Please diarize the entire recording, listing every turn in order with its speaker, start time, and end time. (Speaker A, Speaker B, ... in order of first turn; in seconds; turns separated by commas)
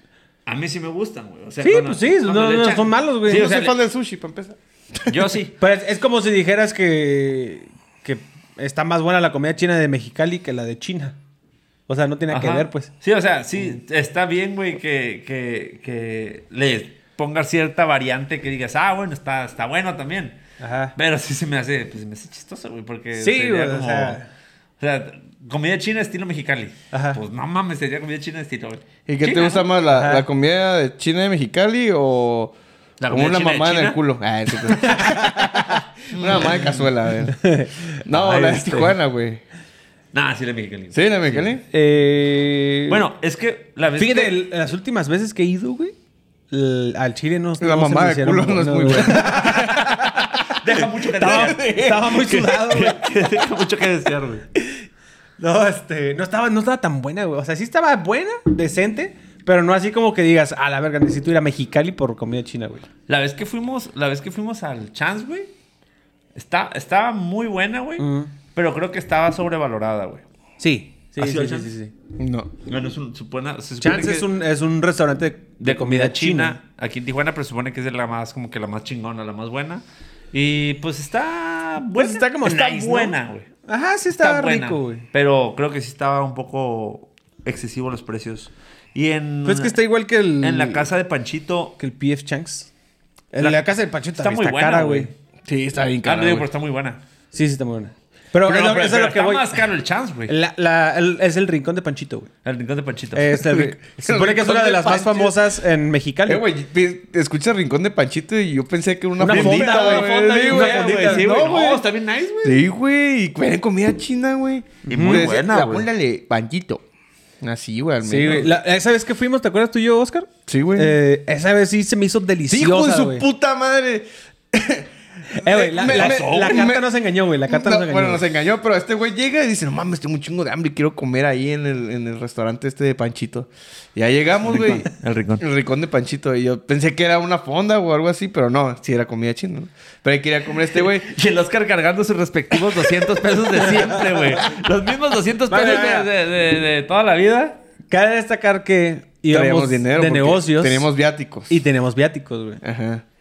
Speaker A: 0.5-3.8, Speaker B: 1.6-3.5, Speaker C: 3.3-5.3, Speaker A: 5.1-5.5, Speaker B: 5.6-11.2, Speaker B: 11.9-12.9, Speaker A: 12.3-20.4, Speaker B: 20.6-20.9, Speaker A: 20.9-24.2, Speaker B: 23.2-24.3, Speaker A: 24.8-29.6, Speaker B: 26.9-27.2, Speaker C: 29.1-32.5, Speaker B: 29.7-30.2, Speaker A: 33.0-34.0, Speaker C: 33.1-37.4, Speaker B: 34.8-35.8, Speaker A: 36.1-36.9, Speaker B: 37.4-37.8, Speaker C: 38.0-39.4, Speaker A: 38.1-38.9, Speaker A: 40.1-41.5, Speaker C: 40.9-41.6, Speaker B: 41.7-43.0, Speaker A: 42.9-44.4, Speaker B: 44.0-45.9, Speaker B: 46.5-49.9, Speaker C: 47.6-52.3, Speaker A: 50.4-54.4, Speaker B: 51.2-53.0, Speaker B: 55.4-62.8, Speaker A: 63.1-65.5, Speaker A: 66.3-70.2, Speaker B: 68.0-68.3, Speaker B: 70.6-71.9, Speaker A: 71.2-71.7, Speaker C: 72.2-72.5, Speaker A: 72.7-74.3, Speaker B: 73.8-76.6, Speaker A: 75.6-83.5, Speaker B: 82.0-85.0, Speaker A: 84.1-89.8, Speaker B: 89.4-90.9, Speaker A: 90.4-91.7, Speaker B: 91.8-92.7, Speaker B: 93.3-95.1, Speaker A: 94.2-95.1, Speaker C: 95.5-96.5, Speaker A: 96.0-97.0, Speaker B: 97.3-99.6, Speaker A: 98.4-100.3, Speaker B: 100.3-102.3, Speaker A: 102.4-103.4, Speaker B: 103.1-106.4, Speaker C: 103.4-105.5, Speaker C: 106.2-111.8, Speaker B: 109.2-111.7, Speaker A: 109.3-112.6, Speaker C: 112.4-116.8, Speaker A: 114.9-115.9, Speaker B: 114.9-115.3, Speaker C: 117.4-118.5, Speaker B: 118.0-123.2, Speaker C: 120.5-120.9, Speaker C: 122.5-126.8, Speaker B: 125.3-128.2, Speaker A: 125.8-126.7, Speaker C: 127.5-134.9, Speaker A: 134.4-135.4, Speaker C: 135.4-141.1, Speaker A: 140.7-147.6, Speaker B: 143.7-144.4, Speaker B: 145.5-146.1, Speaker B: 147.9-150.9, Speaker C: 149.3-151.5, Speaker B: 151.5-152.6, Speaker C: 152.6-153.0